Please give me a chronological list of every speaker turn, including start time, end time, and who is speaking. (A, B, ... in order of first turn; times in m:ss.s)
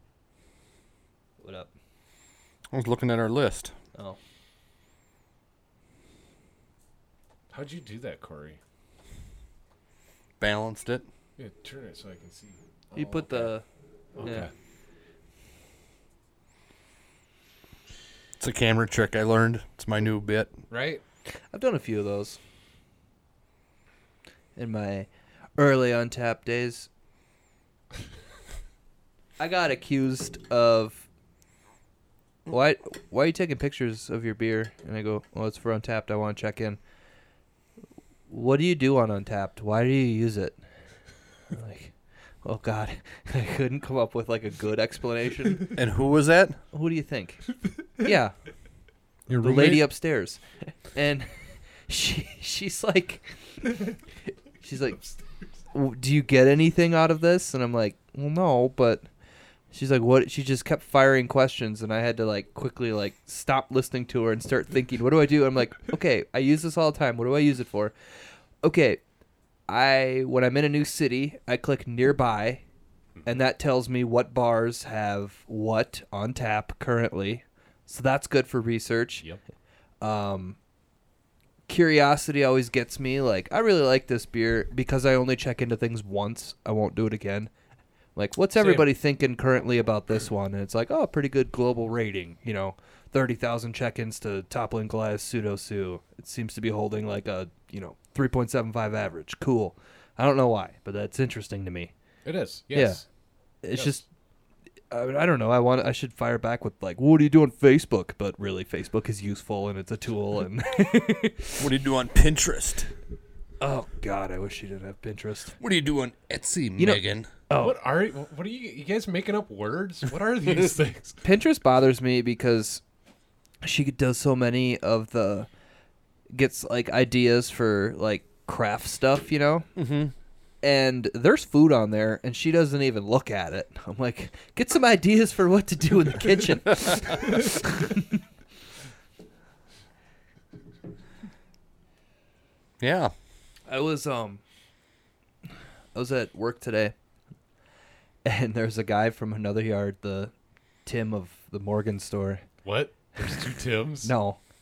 0:01.4-0:01.7 A
0:02.7-0:03.7 B
0:07.5-0:08.6 C
0:10.4-0:11.1 B
0:11.4-0:13.5 C
0:12.9-0:13.6 A
0:14.2-0:14.5 C
0:14.2-0:14.5 A
0:18.4-0:20.5 B
0:20.7-0:21.0 C
0:21.5-0:22.4 A
0:24.6-0:26.9 A
0:29.4-0:31.1 A
0:32.5-0:36.8 A
0:38.3-0:40.6 A
0:41.5-0:41.9 A
0:42.4-0:45.8 A
0:45.7-0:46.6 B
0:46.7-0:47.4 A
0:48.0-0:48.3 A
0:49.3-0:49.9 B
0:49.4-0:50.4 A
0:50.9-0:51.3 A
0:51.9-0:53.9 A
0:54.6-0:55.0 A
0:55.7-0:59.1 A
0:59.7-1:07.9 A
1:08.6-1:09.0 A
1:09.7-1:12.6 A
1:13.2-1:19.3 A
1:20.0-1:20.6 A
1:21.7-1:27.5 A
1:28.2-1:41.9 A
1:28.6-1:28.8 C
1:42.2-1:43.0 C
1:42.7-1:43.0 A
1:43.6-1:44.1 A
1:43.8-1:44.0 C
1:44.9-1:51.6 A
1:51.6-1:52.9 B
1:53.6-1:55.6 A
1:55.6-1:57.3 B
1:56.8-1:57.8 A
1:57.6-2:01.2 C
2:01.2-2:02.8 A
2:03.6-2:05.5 A
2:06.3-2:09.7 A
2:09.8-2:10.1 B
2:10.6-2:18.2 A
2:22.8-2:23.1 B
2:23.7-2:24.4 A
2:25.9-2:26.9 A
2:28.2-2:30.3 A
2:30.9-2:32.4 A
2:32.6-2:34.1 C
2:34.0-2:34.4 A